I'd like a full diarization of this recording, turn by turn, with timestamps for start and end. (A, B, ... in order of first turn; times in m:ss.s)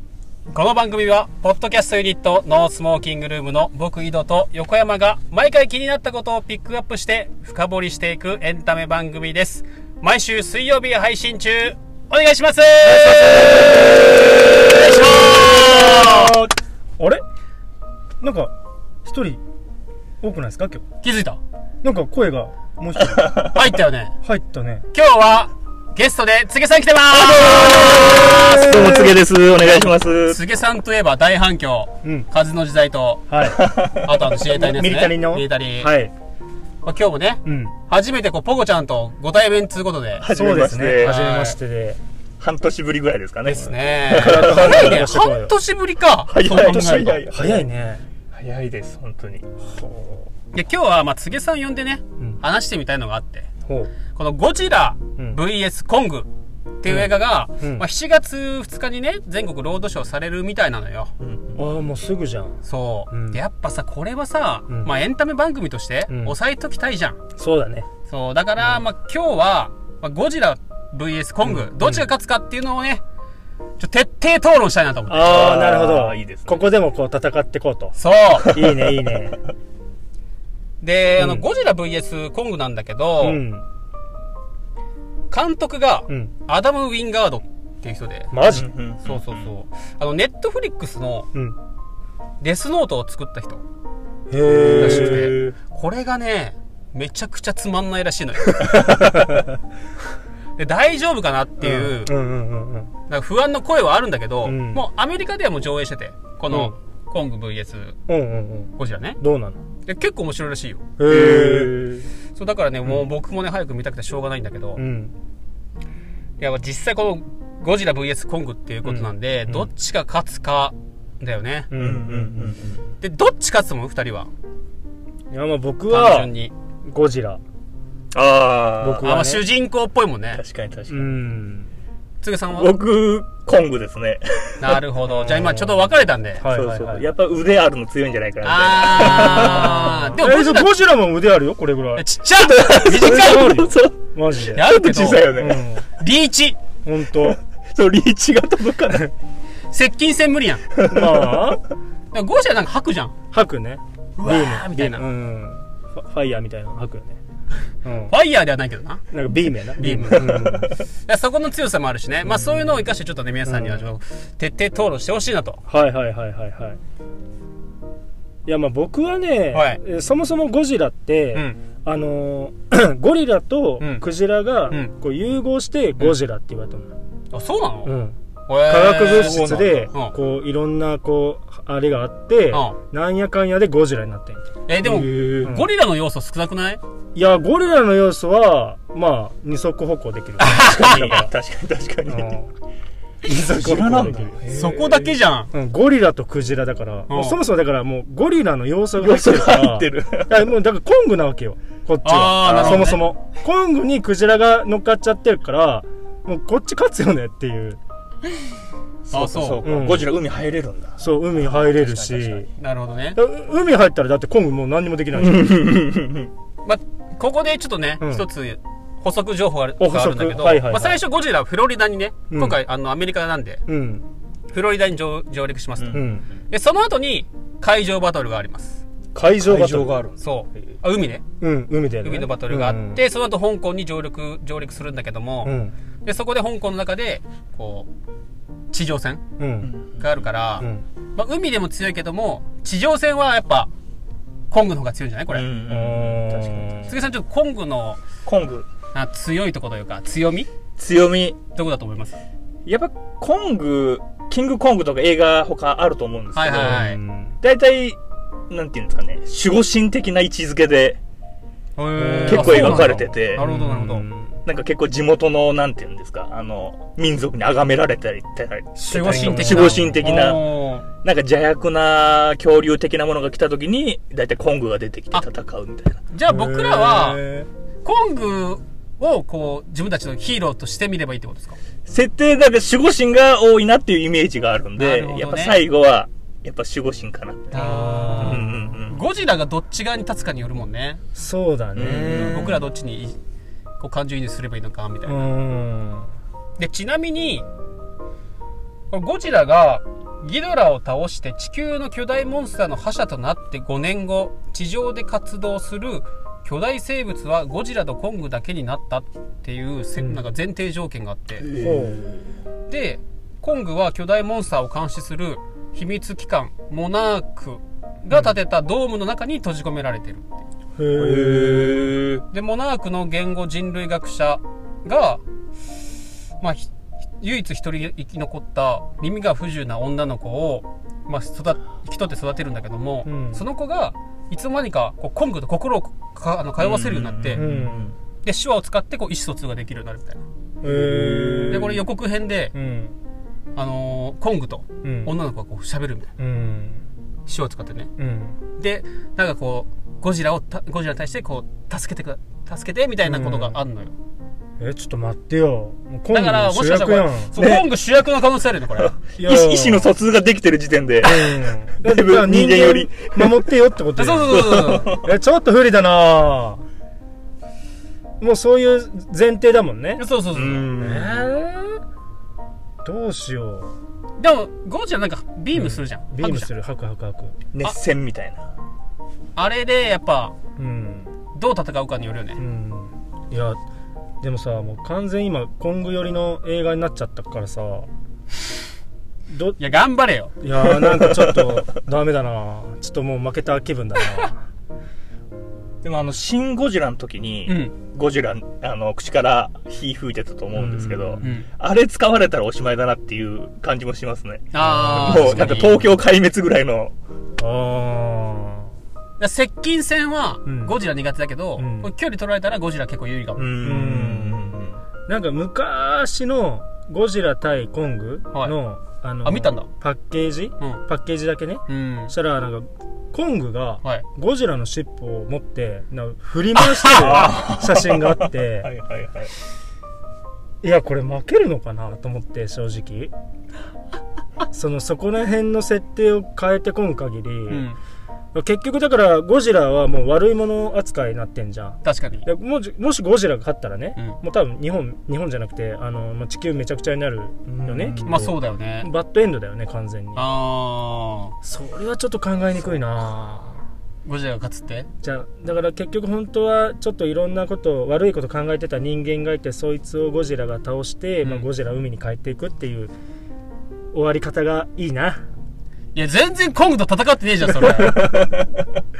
0:00.5-0:16.3 A
0:15.2-0:17.2 B
0:18.2-0:18.5 B
0:19.0-0:19.4 B
0:20.2-0:20.8 B
0:21.0-0:21.4 A
0:21.8-0:23.3 B
0:23.1-0:23.5 C
0:23.4-0:24.1 A
0:24.2-0:24.9 B
0:24.9-0:33.3 A
0:27.1-0:30.4 C
0:28.3-0:29.0 B
0:33.3-0:33.6 B
0:33.4-0:34.1 C
0:34.0-0:35.9 A
0:34.2-0:36.1 B
0:36.8-0:40.2 A
0:37.4-0:37.7 B
0:40.2-0:41.2 C
0:40.3-0:42.0 B
0:41.0-0:41.6 A
0:42.4-0:45.1 C
0:43.4-0:47.2 A
0:44.2-0:45.5 B
0:46.3-0:47.7 C
0:46.6-0:48.0 B
0:48.3-0:49.4 C
0:49.6-0:50.3 B
0:50.5-0:53.5 A
0:53.7-0:53.9 B
0:54.1-0:56.3 A
0:56.8-1:01.1 A
0:56.9-0:57.8 B
1:01.2-1:01.7 C
1:01.6-1:02.6 B
1:02.6-1:07.2 A
1:03.1-1:03.4 B
1:04.7-1:04.9 B
1:06.1-1:06.4 B
1:07.4-1:07.9 B
1:08.1-1:13.0 A
1:08.6-1:08.8 B
1:11.4-1:12.1 B
1:13.8-1:15.5 A
1:15.1-1:19.4 B
1:15.1-1:16.7 C
1:18.0-1:18.6 A
1:20.8-1:23.4 A
1:21.2-1:21.4 B
1:23.2-1:23.6 B
1:25.3-1:31.3 A
1:28.3-1:28.7 B
1:28.5-1:29.5 C
1:32.4-1:33.6 A
1:34.3-1:35.4 B
1:34.4-1:35.6 C
1:34.7-1:39.1 A
1:38.8-1:39.4 B
1:40.6-1:42.2 A
1:41.6-1:42.9 B
1:43.1-1:48.0 A
1:44.4-1:44.8 B
1:46.5-1:46.8 B
1:48.1-1:49.6 B
1:48.8-1:49.2 A
1:49.8-1:50.8 A
1:51.0-1:51.9 B
1:51.1-1:52.1 C
1:52.4-1:54.8 A
1:54.8-1:55.1 B
1:56.4-2:01.7 A
1:58.8-1:59.7 B
2:01.7-2:02.6 B
2:01.8-2:02.8 C
2:03.0-2:04.3 A
2:05.3-2:06.3 B
2:05.9-2:06.5 A
2:06.9-2:07.4 B
2:08.1-2:09.1 C
2:08.8-2:09.4 B
2:09.0-2:10.4 A
2:10.3-2:11.2 C
2:10.9-2:11.7 B
2:12.2-2:12.8 A
2:12.6-2:14.8 C
2:14.6-2:16.4 A
2:15.1-2:15.8 B
2:16.4-2:17.1 B
2:16.5-2:20.0 C
2:18.4-2:20.7 A
2:19.0-2:22.0 B
2:22.0-2:23.7 A
2:22.4-2:24.0 C
2:23.0-2:24.6 B
2:24.5-2:25.6 C
2:24.5-2:25.3 A
2:25.4-2:25.9 B
2:26.0-2:26.6 A
2:26.8-2:27.4 B
2:27.2-2:29.1 C
2:29.7-2:30.6 A
2:30.8-2:31.4 C
2:30.9-2:31.6 B
2:32.1-2:33.1 A
2:33.3-2:37.2 B
2:34.2-2:35.0 A
2:34.4-2:34.7 C
2:37.8-2:38.2 B
2:38.1-2:39.0 A
2:39.1-2:40.7 B
2:39.8-2:40.4 A
2:40.2-2:40.5 C
2:41.0-2:45.6 A
2:42.2-2:42.9 B
2:43.5-2:43.9 B
2:45.7-2:46.8 B
2:48.5-2:56.9 B
2:49.5-2:49.8 A
2:57.3-2:57.9 A
2:57.8-3:04.5 B
2:58.5-3:00.1 A
2:59.0-2:59.9 C
3:02.5-3:02.8 A
3:04.7-3:06.8 A
3:04.8-3:05.6 C
3:05.4-3:05.7 B
3:07.2-3:11.3 B
3:10.4-3:11.2 A
3:10.5-3:12.4 C
3:12.1-3:12.5 B
3:13.2-3:14.4 B
3:13.3-3:15.2 C
3:14.5-3:15.5 A
3:15.5-3:27.8 B
3:17.1-3:17.4 A
3:19.0-3:20.4 C
3:22.0-3:23.0 A
3:22.4-3:23.0 C
3:29.1-3:32.5 C
3:29.1-3:29.7 A
3:29.6-3:30.1 B
3:31.0-3:32.5 B
3:32.6-3:33.2 A
3:33.2-3:35.7 B
3:35.3-3:36.3 C
3:36.6-3:43.6 A
3:38.0-3:38.3 B
3:39.8-3:41.0 B
3:42.3-3:42.6 B
3:43.7-3:44.1 B
3:44.5-3:48.8 A
3:45.8-3:46.1 C
3:45.9-3:46.3 B
3:49.1-3:49.9 B
3:49.4-3:50.2 C
3:50.2-3:51.2 A
3:51.4-3:53.0 B
3:52.0-3:57.9 A
3:55.4-3:55.7 B
3:58.7-3:59.2 A
3:59.4-3:59.7 B
3:59.6-4:00.1 C
4:00.0-4:03.7 A
4:04.5-4:05.4 A
4:05.3-4:06.8 C
4:05.7-4:07.0 B
4:06.9-4:08.0 A
4:08.2-4:08.7 C
4:08.9-4:10.5 A
4:10.8-4:11.4 C
4:11.6-4:12.2 A
4:12.7-4:16.9 C
4:16.4-4:17.0 A
4:16.6-4:17.4 B
4:17.4-4:18.0 C
4:18.5-4:21.0 C
4:21.8-4:24.0 A
4:21.9-4:24.4 B
4:22.3-4:23.4 C
4:24.4-4:30.5 C
4:28.8-4:30.8 A
4:28.9-4:30.4 B
4:31.0-4:36.0 C
4:36.1-4:37.2 A
4:36.3-4:37.5 B
4:37.8-4:41.6 A
4:41.9-4:49.0 C
4:44.8-4:45.6 A
4:47.5-4:48.8 B
4:47.5-4:51.0 A
4:51.2-4:52.6 B
4:51.8-4:52.6 C
4:51.9-4:53.2 A
4:53.8-4:55.3 A
4:55.0-4:56.1 B
4:56.6-4:57.5 A
4:58.9-5:11.5 A
5:10.0-5:10.3 B
5:11.4-5:12.2 C
5:11.6-5:12.1 B
5:12.7-5:20.2 A
5:20.8-5:22.0 B
5:21.0-5:22.2 C
5:22.3-5:25.2 A
5:26.4-5:37.4 A
5:33.0-5:33.4 B
5:36.6-5:38.0 C
5:37.4-5:37.9 B
5:38.2-5:40.2 A
5:40.6-5:41.8 B
5:40.6-5:41.8 C
5:41.5-5:42.5 A
5:42.5-5:43.0 B
5:43.6-5:46.1 A
5:44.8-5:45.1 B
5:46.2-5:46.8 B
5:47.3-5:47.9 A
5:48.0-5:48.4 B
5:48.6-5:53.9 A
5:53.0-5:53.6 B
5:54.6-5:57.4 B
5:56.1-5:59.0 A
5:57.4-5:57.7 C
5:58.8-6:03.4 C
5:59.2-5:59.9 B
6:01.0-6:06.6 B
6:04.0-6:04.9 A
6:04.3-6:05.1 C
6:08.2-6:10.0 B
6:10.0-6:10.7 A
6:10.3-6:11.3 C
6:10.8-6:11.8 B
6:12.8-6:13.7 B
6:14.2-6:16.5 A
6:15.5-6:17.4 B
6:17.5-6:18.4 C
6:19.4-6:20.4 A
6:20.6-6:21.1 B
6:21.3-6:22.4 A
6:22.4-6:23.6 B
6:24.2-6:27.9 B
6:29.3-6:29.6 B
6:29.6-6:30.3 A
6:30.4-6:34.4 B
6:30.7-6:31.6 C
6:35.8-6:46.9 C
6:37.5-6:37.7 A
6:40.5-6:41.3 B
6:41.2-6:41.5 A
6:44.5-6:45.8 A
6:44.6-6:45.8 B
6:47.4-6:48.7 B
6:49.2-6:53.5 A
6:50.4-6:50.8 B
6:51.6-6:51.9 B
6:53.4-6:54.8 C
6:53.6-6:54.6 B
6:55.1-7:08.7 B
6:59.2-6:59.7 A
7:01.7-7:02.1 A
7:06.9-7:09.3 C
7:10.6-7:13.1 B
7:14.5-7:17.7 B
7:17.5-7:17.8 A
7:18.3-7:30.3 B
7:21.8-7:22.3 A
7:27.5-7:28.3 C
7:28.0-7:28.9 A
7:30.2-7:31.3 A
7:31.4-7:33.6 B
7:34.0-7:34.9 A
7:35.0-7:42.9 B
7:43.9-7:45.2 B
7:45.9-7:48.0 A